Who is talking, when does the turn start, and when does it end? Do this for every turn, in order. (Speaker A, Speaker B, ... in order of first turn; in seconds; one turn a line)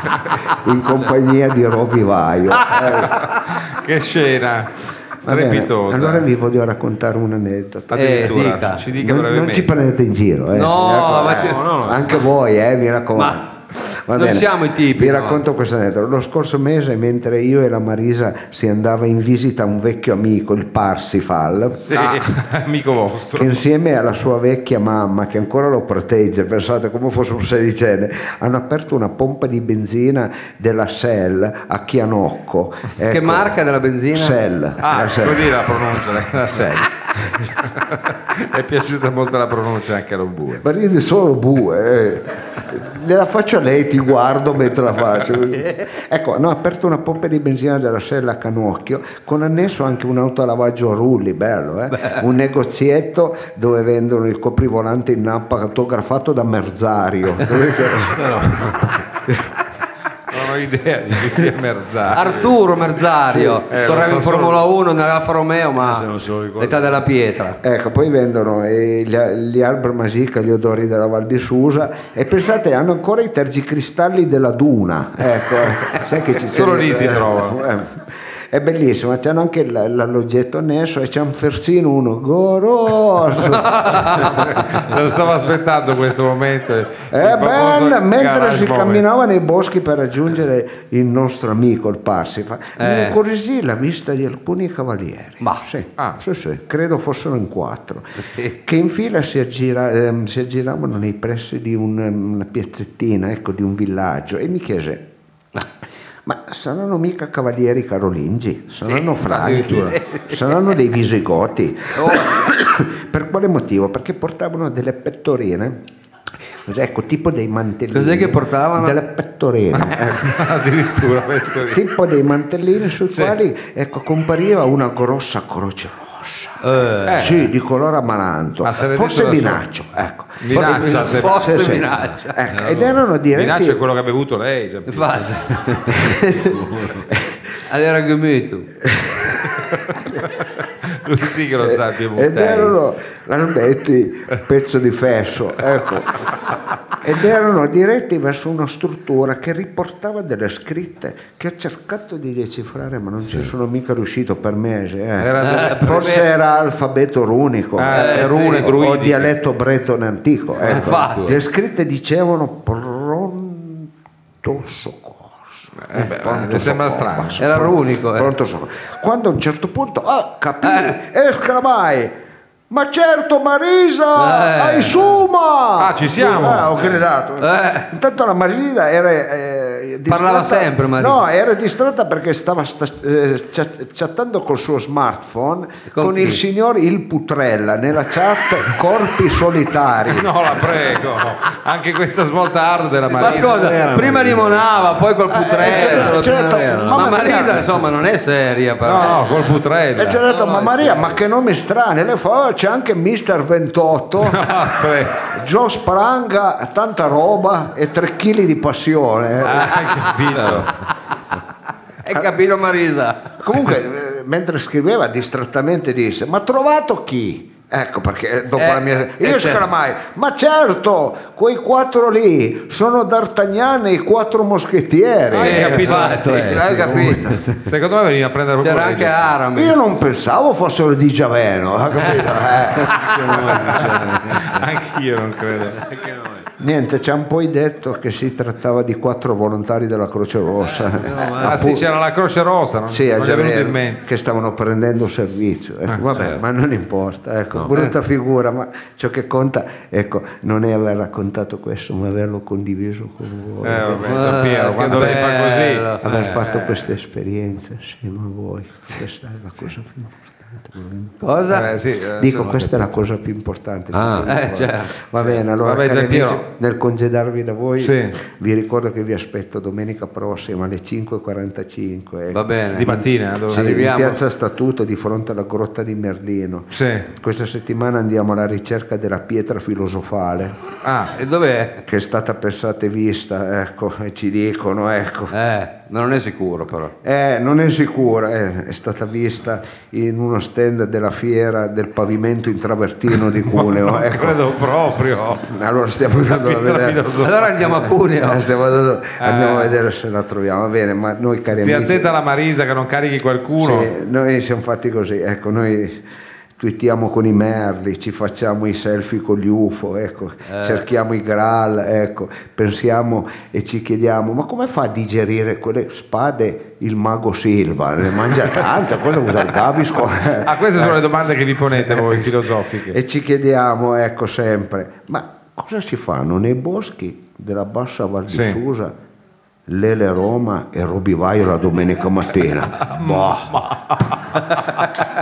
Speaker A: 0.3-3.2
Speaker B: 3.0-4.7
Speaker A: 5.2-8.4
Speaker B: 5.2-6.2
Speaker B: 7.9-9.7
Speaker C: 7.9-8.8
Speaker A: 8.9-21.9
Speaker C: 10.5-11.6
Speaker D: 11.2-12.3
Speaker C: 13.1-13.4
Speaker C: 14.1-15.4
Speaker C: 21.9-22.2
Speaker B: 21.9-23.6
Speaker A: 23.4-33.6
Speaker C: 33.1-34.4
Speaker A: 34.1-35.5
Speaker B: 34.8-40.6
Speaker A: 40.6-58.3
Speaker D: 58.0-59.0
Speaker B: 60.3-62.5
Speaker C: 62.1-66.1
Speaker B: 63.7-64.6
Speaker D: 65.8-67.0
Speaker C: 66.6-67.6
Speaker A: 67.6-78.0
Speaker B: 76.5-77.6
Speaker A: 78.5-84.2
Speaker C: 83.5-84.5
Speaker B: 84.2-89.0
Speaker A: 87.1-105.0
Speaker C: 92.8-93.2
Speaker C: 95.4-95.7
Speaker C: 98.2-98.5
Speaker A: 106.2-115.8
Speaker B: 108.9-110.0
Speaker C: 111.9-112.3
Speaker A: 116.6-120.4
Speaker C: 117.9-119.0
Speaker B: 119.7-121.8
Speaker A: 121.6-126.6
Speaker B: 123.1-123.4
Speaker C: 126.6-127.3
Speaker B: 127.1-127.5
Speaker A: 127.2-133.8
Speaker B: 128.6-129.6
Speaker B: 130.4-131.6
Speaker C: 130.5-132.4
Speaker D: 132.5-133.1
Speaker B: 133.3-135.2
Speaker C: 134.9-135.4
Speaker D: 135.3-137.1
Speaker C: 135.9-136.5
Speaker C: 137.7-138.7
Speaker A: 138.8-140.2
Speaker B: 141.0-142.8
Speaker A: 141.6-146.2
Speaker A: 146.9-163.9
Speaker D: 153.2-153.5
Speaker B: 155.2-156.2
Speaker C: 155.4-156.3
Speaker B: 157.8-159.3
Speaker C: 157.9-158.7
Speaker D: 160.6-161.4
Speaker C: 160.7-161.4
Speaker A: 164.4-172.1
Speaker B: 165.8-167.4
Speaker C: 167.4-168.3
Speaker C: 170.6-170.9
Speaker A: 172.7-190.6
Speaker C: 174.2-175.0
Speaker B: 175.8-176.7
Speaker C: 177.4-177.9
Speaker C: 180.1-181.2
Speaker C: 185.9-186.4
Speaker B: 190.1-193.7
Speaker C: 193.1-196.2
Speaker D: 193.1-194.9
Speaker A: 195.4-197.7
Speaker D: 195.5-197.8
Speaker C: 196.9-199.3
Speaker B: 198.8-200.2
Speaker A: 199.9-204.5
Speaker D: 200.2-201.2
Speaker B: 204.2-205.2
Speaker A: 205.3-210.0
Speaker B: 209.4-210.7
Speaker D: 210.2-210.7
Speaker C: 212.0-213.2
Speaker A: 213.4-227.4
Speaker C: 218.5-219.6
Speaker B: 225.3-226.2
Speaker C: 225.3-226.6
Speaker D: 225.9-227.7
Speaker B: 227.6-229.3
Speaker C: 228.6-229.8
Speaker A: 229.5-232.9
Speaker D: 232.7-234.7
Speaker B: 233.8-235.8
Speaker D: 235.7-236.5
Speaker A: 236.6-241.8
Speaker D: 240.6-241.8
Speaker B: 241.4-244.0
Speaker A: 242.9-254.3
Speaker D: 246.1-246.4
Speaker B: 253.6-256.9
Speaker C: 254.0-256.0
Speaker A: 256.0-261.6
Speaker D: 256.1-256.4
Speaker C: 261.2-261.7
Speaker B: 261.5-262.9
Speaker A: 262.2-280.6
Speaker D: 263.9-264.4
Speaker C: 264.2-264.9
Speaker B: 265.1-266.4
Speaker B: 267.8-268.1
Speaker C: 272.3-273.0
Speaker B: 272.8-273.8
Speaker C: 273.5-274.2
Speaker B: 276.7-277.1
Speaker B: 280.8-281.1
Speaker C: 281.1-281.8
Speaker A: 281.8-285.3
Speaker C: 285.3-286.9
Speaker A: 287.0-294.4
Speaker B: 293.5-295.5
Speaker A: 295.4-297.1
Speaker B: 296.1-297.5
Speaker C: 297.1-298.4
Speaker A: 298.2-302.1
Speaker B: 299.2-299.8
Speaker B: 301.5-303.9
Speaker A: 303.6-306.0
Speaker A: 306.6-321.0
Speaker C: 310.5-310.8
Speaker B: 320.4-323.0
Speaker A: 321.8-322.3
Speaker A: 322.9-328.9
Speaker B: 328.3-328.6
Speaker A: 329.7-333.5
Speaker B: 332.9-335.0